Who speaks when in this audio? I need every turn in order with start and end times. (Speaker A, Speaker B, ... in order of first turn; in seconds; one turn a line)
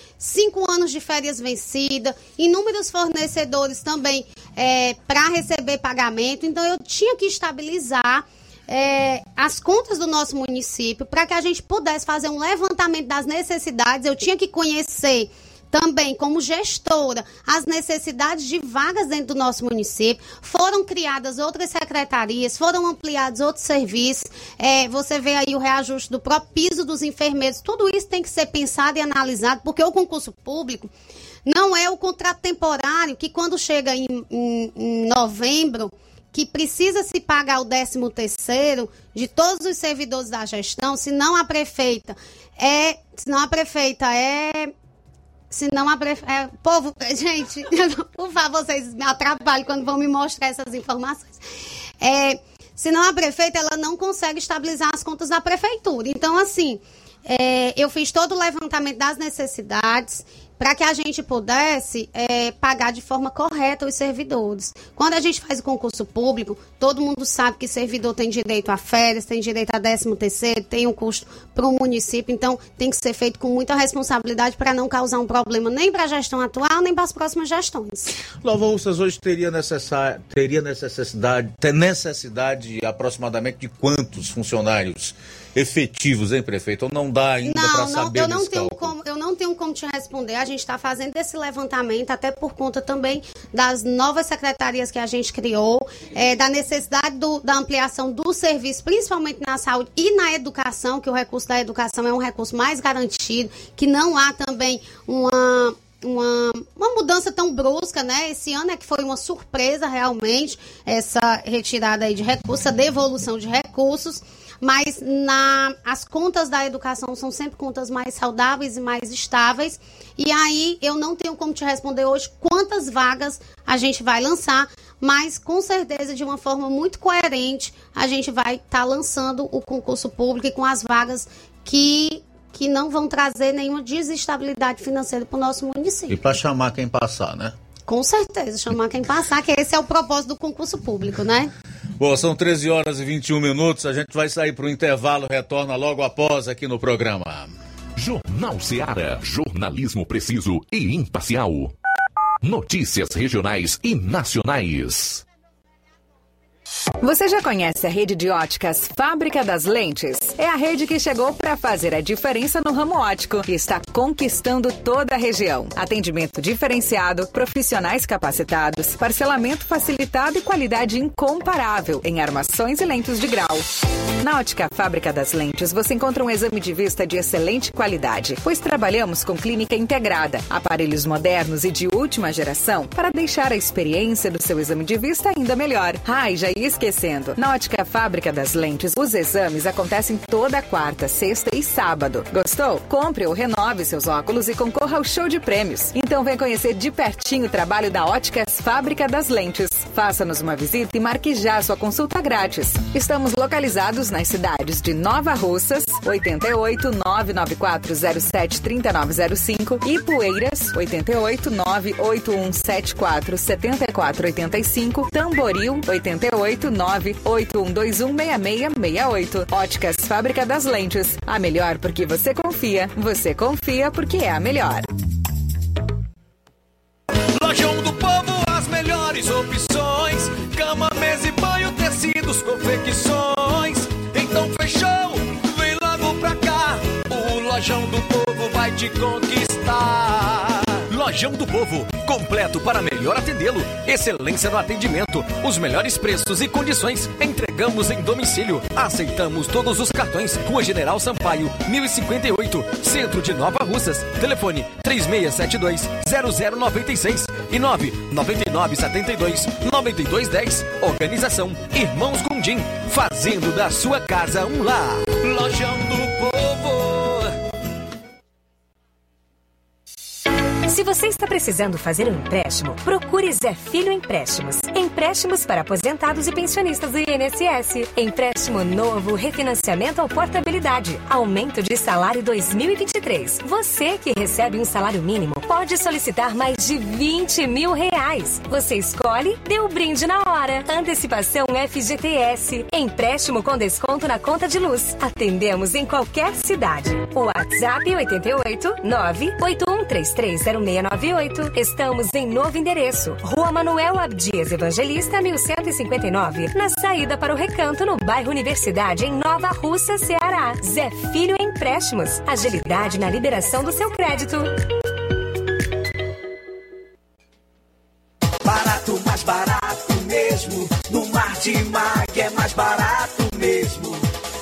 Speaker A: 0.2-30.9
Speaker A: 31.4-44.7
Speaker A: 45.5-51.4
Speaker A: 52.0-78.1
Speaker B: 78.4-89.0
Speaker A: 87.4-136.2
Speaker B: 136.1-137.6
Speaker A: 137.9-141.5
Speaker B: 142.0-147.5
Speaker C: 147.9-151.7
Speaker C: 152.4-155.2
Speaker D: 157.0-224.9
Speaker E: 227.4-233.7
Speaker F: 232.0-233.0
Speaker E: 234.3-240.3
Speaker F: 238.7-239.5
Speaker F: 240.9-266.5
Speaker G: 270.6-314.6
Speaker E: 318.4-324.0